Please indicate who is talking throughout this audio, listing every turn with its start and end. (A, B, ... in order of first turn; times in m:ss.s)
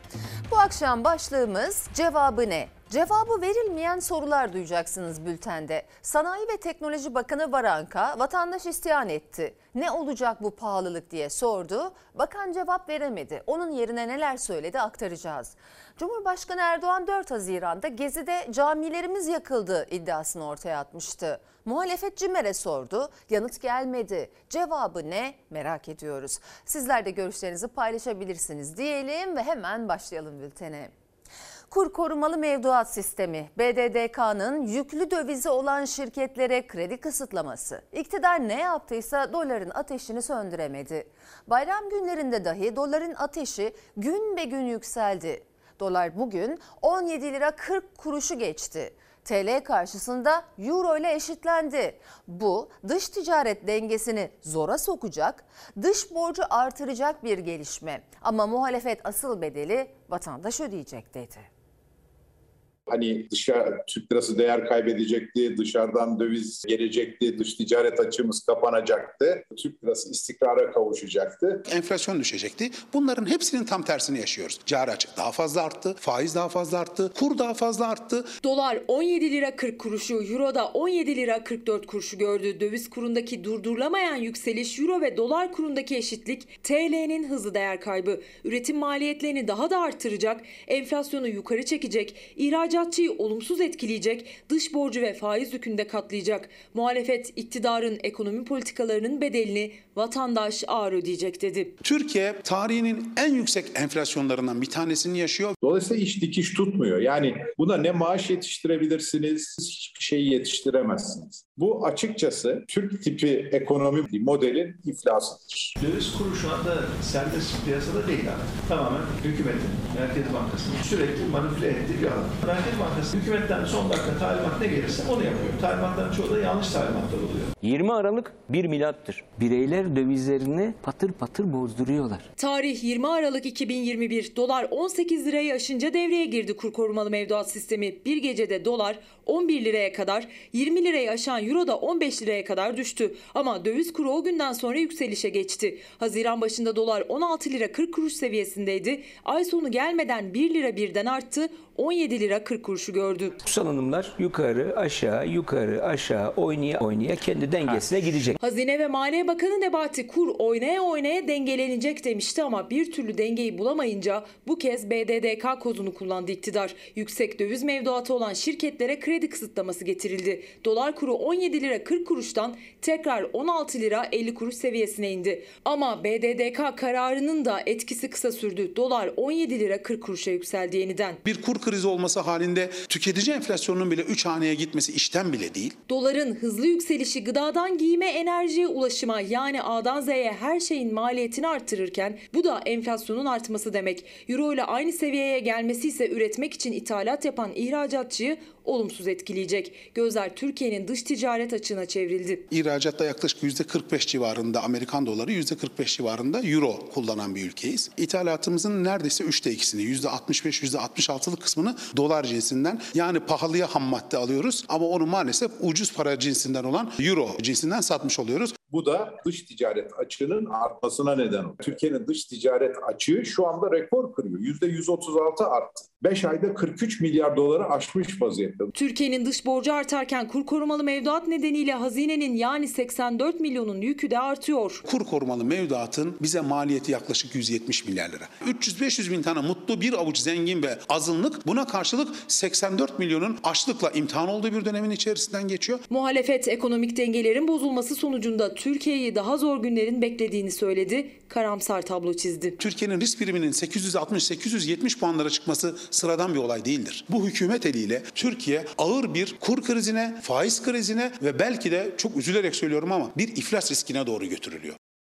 0:00.5-0:30.9 A
0:31.7-1:01.5 A
1:02.9-1:11.6 B
1:11.7-1:18.3 C
1:18.4-1:41.8 D
1:41.8-1:45.5 C
1:45.6-1:55.7 B
1:55.8-2:07.5 E
2:07.6-2:12.2 F
2:12.4-2:33.4 D
2:33.4-2:38.4 F
2:38.4-3:01.2 D
3:01.2-3:05.8 C
3:05.9-3:22.4 D
3:22.5-3:38.6 C
3:38.7-3:48.7 B
3:48.7-3:54.8 D
3:54.8-4:05.8 C
4:05.9-4:12.6 D
4:12.6-4:24.8 C